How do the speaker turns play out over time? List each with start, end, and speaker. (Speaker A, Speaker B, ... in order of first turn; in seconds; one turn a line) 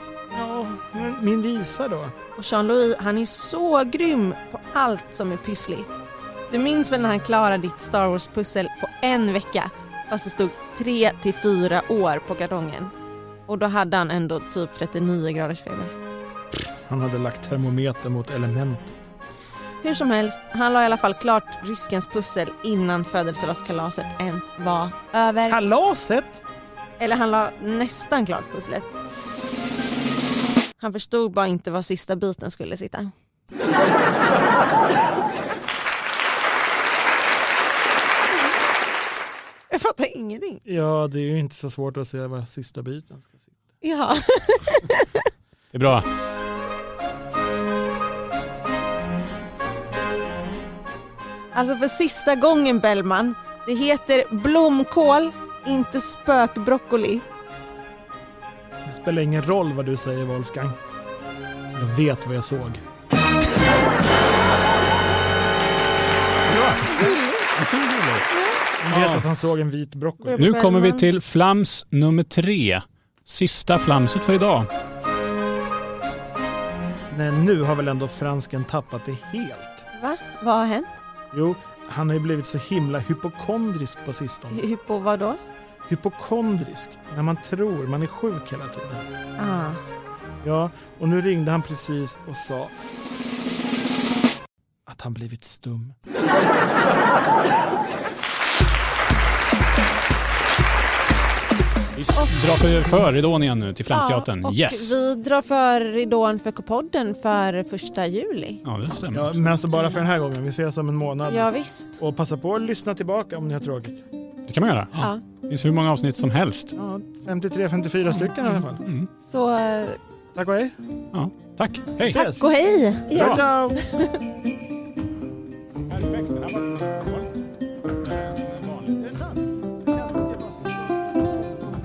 Speaker A: 0.3-2.1
Speaker B: 2.4-12.9
Speaker B: 13.5-16.0
Speaker A: 16.9-19.0
Speaker B: 19.8-25.6
Speaker A: 25.5-26.4
Speaker B: 27.0-28.9
Speaker B: 30.8-33.1
Speaker B: 39.7-40.6
Speaker A: 40.6-43.5
Speaker B: 43.8-45.3
Speaker C: 45.7-46.1
Speaker B: 51.5-57.2
Speaker A: 58.9-60.8
Speaker A: 61.8-62.8
Speaker C: 66.5-68.3
Speaker B: 66.9-67.5
Speaker B: 68.3-68.6
Speaker A: 68.8-70.5
Speaker C: 68.9-69.3
Speaker B: 70.2-71.1
Speaker C: 70.4-74.7
Speaker A: 77.1-79.8
Speaker B: 80.0-80.9
Speaker A: 81.3-84.6
Speaker B: 84.5-85.4
Speaker A: 85.9-89.0
Speaker B: 89.4-89.8
Speaker A: 90.4-92.7
Speaker A: 94.9-96.0
Speaker C: 102.0-105.0
Speaker B: 103.9-108.6
Speaker C: 108.6-109.4
Speaker A: 109.1-114.0
Speaker B: 111.3-112.0
Speaker C: 114.5-116.8
Speaker B: 115.0-115.2
Speaker A: 116.8-118.8
Speaker C: 118.5-119.1
Speaker B: 119.2-120.0
Speaker A: 120.3-120.8
Speaker C: 121.1-122.2
Speaker A: 122.1-122.5
Speaker B: 122.1-124.2
Speaker A: 123.1-123.8
Speaker C: 123.2-123.4
Speaker C: 125.9-127.4
Speaker C: 127.9-129.0
Speaker A: 129.0-131.3